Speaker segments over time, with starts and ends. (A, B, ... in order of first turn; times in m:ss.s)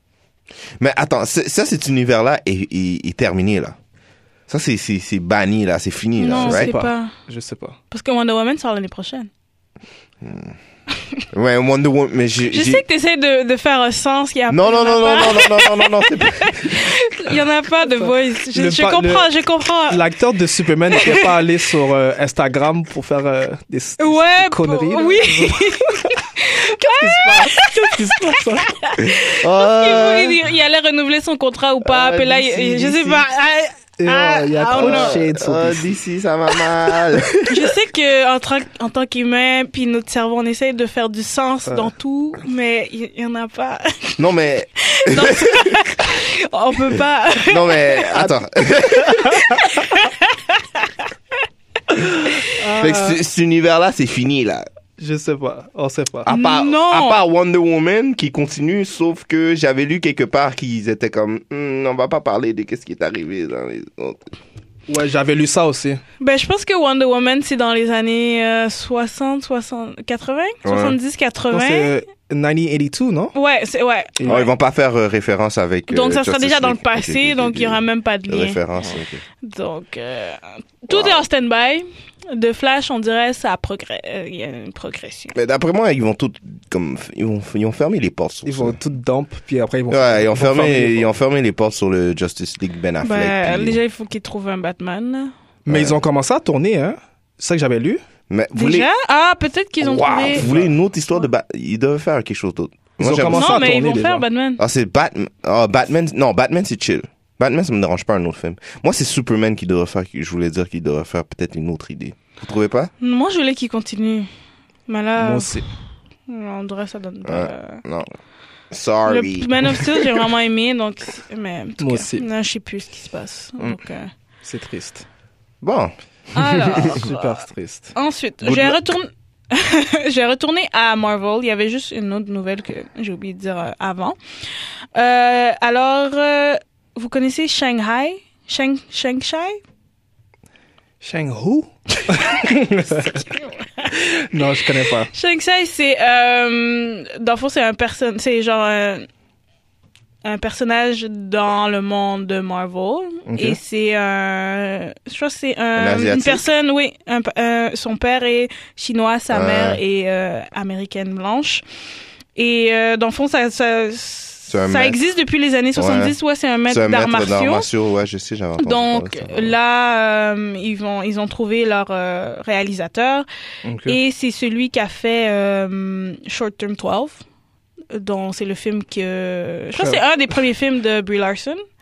0:00.8-0:03.8 A
0:04.5-0:06.7 A
0:06.2-0:07.1 B
0:06.4-0:07.8 C
0:07.9-0:09.3 B
0:10.2-0:10.6 A
0:11.3-0:12.8 A
0:12.5-0:20.0 B
0:14.5-0:17.3 A
0:18.0-0:19.3 C
0:19.9-0:26.2 C
0:20.9-0:21.4 B
0:24.0-0:35.2 B
0:26.8-0:28.8 C
0:29.0-0:30.4 A
0:31.8-0:33.2 A
0:34.0-0:35.8 C
0:34.7-0:37.7 A
0:37.4-0:44.3 B
0:41.6-0:41.9 C
0:44.2-0:45.9 A
0:44.8-0:48.2 B
0:47.4-0:49.4 A
0:48.9-0:49.8 C
0:49.2-0:50.9 B
0:52.4-0:53.2 C
0:52.7-0:54.7 A
0:55.0-0:56.3 C
0:56.2-1:04.3 A
0:56.3-0:57.2 B
1:04.9-1:06.0 C
1:06.2-1:11.9 B
1:10.6-1:11.0 A
1:11.5-1:13.3 C
1:13.3-1:14.5 B
1:14.2-1:19.2 A
1:15.9-1:18.6 B
1:19.4-1:25.3 B
1:20.9-1:21.2 A
1:25.3-1:28.8 A
1:28.4-1:31.1 C
1:29.9-1:33.8 A
1:33.0-1:35.3 B
1:35.6-1:38.0 C
1:35.7-1:36.0 A
1:38.3-1:38.9 A
1:38.6-1:40.4 B
1:39.8-1:43.7 A
1:40.4-1:40.7 C
1:43.0-1:44.2 C
1:43.3-1:44.6 B
1:44.6-1:52.9 A
1:53.0-1:54.3 B
1:54.9-1:55.6 B
1:55.2-1:55.7 C
1:56.3-1:57.8 B
1:57.2-1:58.1 A
1:58.7-2:00.3 A
1:59.0-2:04.1 B
2:01.8-2:02.2 C
2:04.4-2:05.0 C
2:05.6-2:06.9 A
2:06.3-2:07.4 B
2:06.8-2:08.0 C
2:07.9-2:14.2 B
2:08.4-2:08.8 A
2:14.9-2:19.6 B
2:21.0-2:23.2 C
2:22.9-2:23.6 B
2:23.9-2:25.1 C
2:25.1-2:29.1 B
2:30.2-2:41.6 B
2:33.2-2:33.6 C
2:35.8-2:36.4 A
2:39.3-2:39.8 A
2:42.4-2:47.7 B
2:44.5-2:45.0 A
2:45.8-2:46.2 A
2:46.7-2:49.5 A
2:48.6-2:53.3 B
2:53.6-2:54.0 C
2:53.8-2:57.2 B
2:57.9-3:01.6 B
2:59.8-3:00.0 C